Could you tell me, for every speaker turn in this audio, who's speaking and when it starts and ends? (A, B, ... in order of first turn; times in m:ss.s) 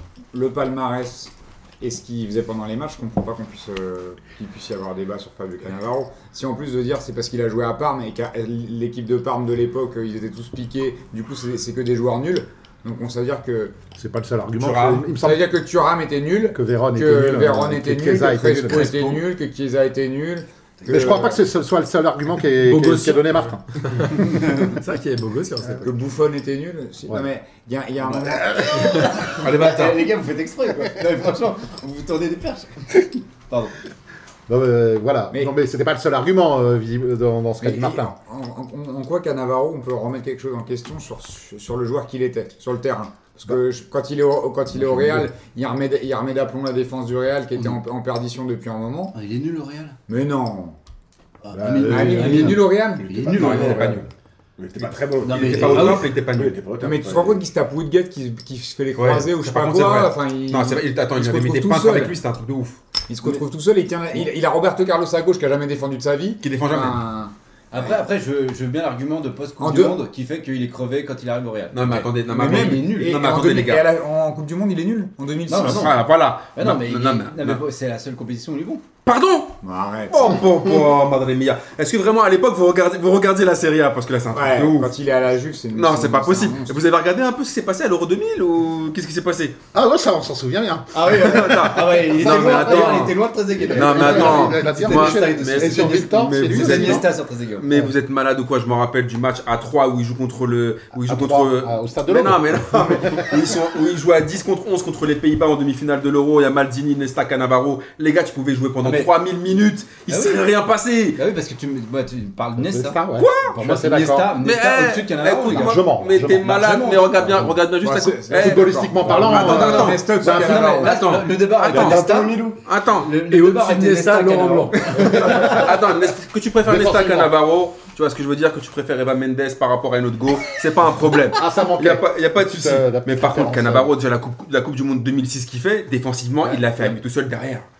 0:00.3-0:13.8 A
0:14.0-0:15.4 B
0:14.6-0:15.1 C
0:15.2-0:21.4 A
0:16.5-0:19.2 B
0:20.9-0:24.4 B
0:22.6-0:25.9 D
0:25.8-0:29.0 A
0:28.7-0:33.7 E
0:29.3-0:30.0 C
0:34.5-0:38.1 B
0:37.6-0:49.1 A
0:44.8-0:45.2 B
0:49.1-0:50.0 E
0:50.1-0:50.8 A
0:51.4-0:54.0 E
0:51.6-0:52.6 B
0:51.7-0:53.4 A
0:52.9-0:57.4 F
0:53.4-0:53.9 C
0:55.2-0:56.1 E
0:55.3-0:56.6 C
0:56.8-1:02.2 A
0:58.9-1:02.8 C
1:03.1-1:07.9 A
1:06.4-1:07.0 C
1:07.7-1:13.2 E
1:09.6-1:10.0 A
1:11.7-1:13.8 C
1:12.2-1:16.0 A
1:15.5-1:16.0 E
1:15.6-1:17.6 C
1:16.5-1:18.8 E
1:19.0-1:24.9 C
1:19.6-1:20.4 A
1:24.3-1:26.8 A
1:25.7-1:29.6 C
1:29.7-1:33.1 B
1:30.9-1:37.6 E
1:31.1-1:33.2 C
1:33.6-1:37.1 B
1:33.7-1:51.2 C
1:41.0-1:43.4 B
1:48.8-1:49.1 E
1:50.1-1:50.4 E
1:51.1-1:53.0 E
1:52.6-1:54.4 B
1:53.2-1:53.6 C
1:53.6-1:57.5 E
1:54.4-2:00.0 C
1:55.5-1:56.5 B
1:57.7-2:01.1 A
1:58.3-2:00.9 B
2:00.2-2:05.7 E
2:00.8-2:02.0 C
2:01.7-2:02.6 F
2:02.6-2:03.1 C
2:03.3-2:05.3 D
2:04.8-2:05.7 B
2:05.0-2:17.7 C
2:06.6-2:07.3 B
2:11.3-2:13.9 B
2:16.4-2:17.0 B